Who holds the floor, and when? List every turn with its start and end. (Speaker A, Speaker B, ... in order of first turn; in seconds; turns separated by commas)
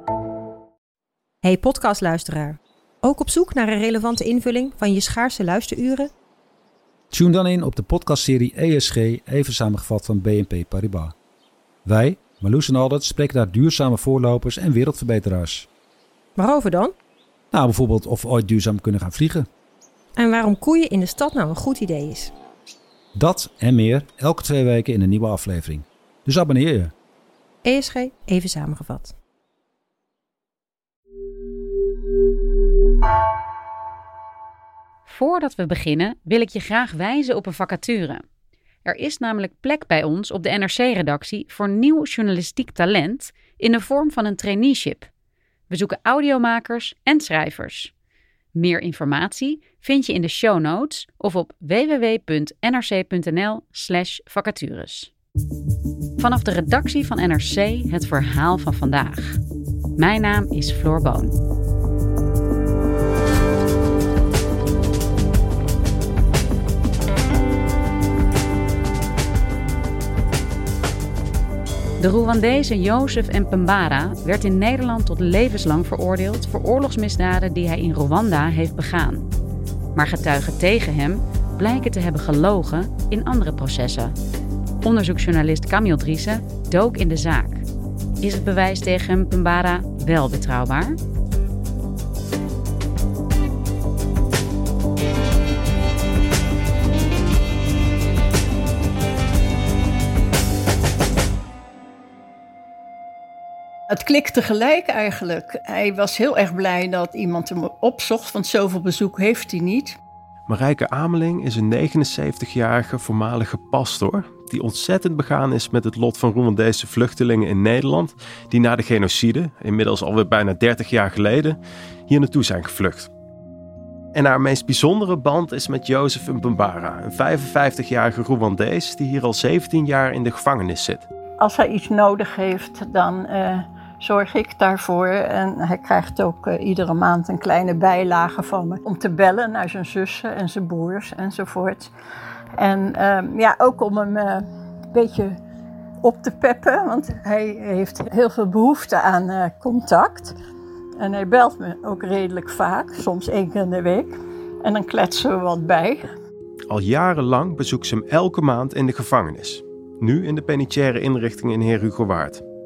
Speaker A: 1.4-6.1, Speaker B: 7.1-11.1, Speaker B: 11.8-15.7, Speaker A: 16.4-16.9, Speaker B: 17.5-19.5, Speaker A: 20.1-22.3, Speaker B: 23.1-26.9, Speaker A: 27.6-29.1, Speaker C: 35.0-38.2, Speaker C: 38.8-45.1, Speaker C: 45.7-47.9, Speaker C: 48.5-55.1, Speaker C: 56.2-59.4, Speaker C: 60.0-61.3, Speaker C: 72.0-79.3, Speaker C: 79.9-84.1, Speaker C: 84.8-87.6, Speaker C: 88.2-91.0, Speaker D: 103.9-110.0, Speaker E: 110.5-121.6, Speaker E: 122.1-123.1, Speaker E: 124.1-131.0, Speaker D: 131.4-141.9, Speaker D: 142.6-145.3, Speaker D: 146.0-150.3, Speaker D: 151.0-154.1, Speaker D: 154.6-156.0, Speaker E: 156.7-162.4